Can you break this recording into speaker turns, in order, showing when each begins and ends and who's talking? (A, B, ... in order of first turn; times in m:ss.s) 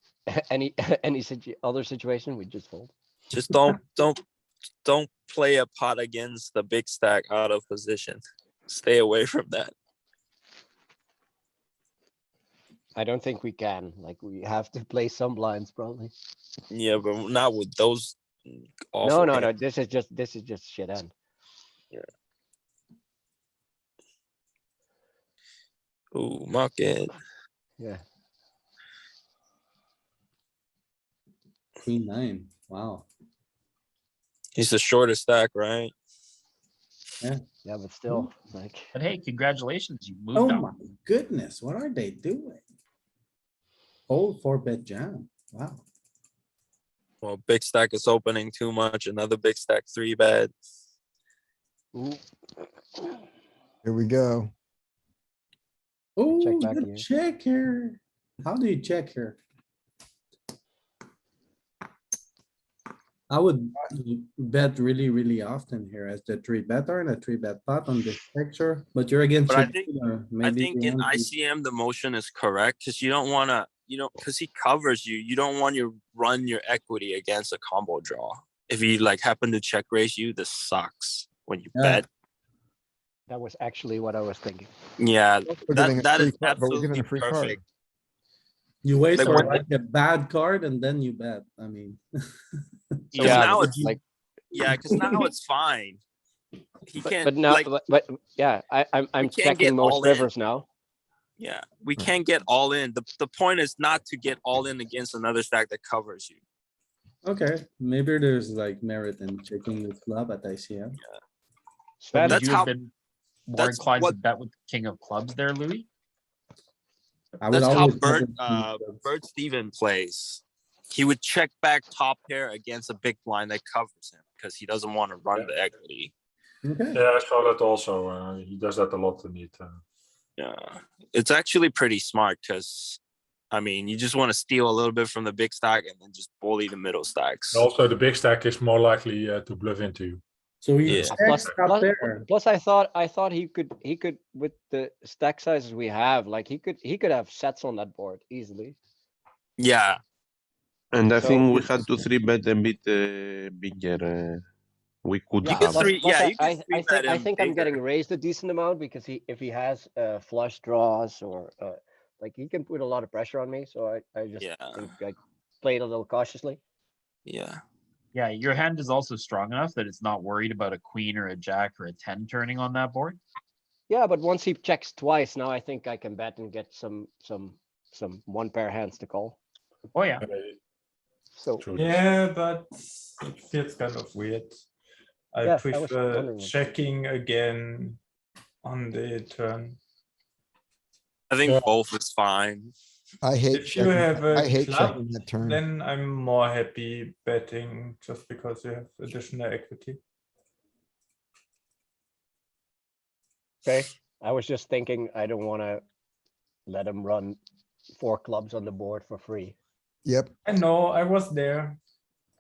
0:00.3-0:02.9 A
0:03.3-0:04.2 B
0:04.8-0:09.7 B
0:12.9-0:16.1 A
0:16.7-0:18.2 B
0:18.9-0:19.5 B
0:19.0-0:21.1 A
0:26.1-0:27.1 B
0:31.8-0:33.1 C
0:34.6-0:35.9 B
0:37.6-0:38.9 A
0:38.9-0:40.7 D
0:40.3-0:42.6 C
0:44.1-0:45.8 C
0:47.2-0:50.5 B
0:51.9-0:52.2 A
0:53.8-0:54.5 E
0:56.2-0:59.4 C
0:56.3-0:57.0 A
1:03.3-1:11.3 C
1:09.5-1:09.9 B
1:10.4-1:22.0 B
1:21.8-1:22.0 C
1:23.3-1:24.7 A
1:25.0-1:27.6 B
1:25.6-1:27.6 E
1:28.8-1:32.0 C
1:29.2-1:29.6 B
1:33.1-1:34.0 C
1:33.1-1:33.9 B
1:33.2-1:34.0 A
1:34.5-1:36.0 B
1:36.9-1:37.7 B
1:37.2-1:40.6 A
1:39.2-1:40.3 B
1:41.4-1:46.4 B
1:47.2-1:51.0 C
1:52.0-1:52.4 A
1:52.1-1:52.9 D
1:52.2-1:52.7 B
1:53.5-1:55.9 D
1:53.5-1:54.2 B
1:57.4-1:59.0 C
1:57.5-2:06.1 B
2:06.6-2:07.0 C
2:06.9-2:09.8 F
2:10.4-2:13.0 B
2:13.5-2:17.6 B
2:17.5-2:20.2 F
2:20.6-2:22.2 C
2:20.9-2:21.5 F
2:21.1-2:28.8 A
2:29.6-2:30.0 B
2:30.9-2:34.4 G
2:31.2-2:31.7 A
2:35.0-2:35.9 G
2:35.4-2:46.6 A
2:35.5-2:37.8 B
2:44.4-2:44.8 B
2:47.2-2:47.6 B
2:48.1-2:53.2 D
2:53.9-2:59.4 A
2:59.9-3:00.2 D
3:00.2-3:00.6 F
3:01.3-3:01.6 A
3:01.6-3:02.0 F
3:01.8-3:04.6 H
3:05.3-3:08.0 H
3:05.4-3:06.5 A
3:08.6-3:09.8 H
3:11.3-3:12.7 B
3:13.2-3:15.6 E
3:13.5-3:20.0 H
3:23.6-3:25.8 A
3:26.7-3:27.4 A
3:28.0-3:29.6 A
3:30.0-3:30.3 E
3:30.4-3:31.8 H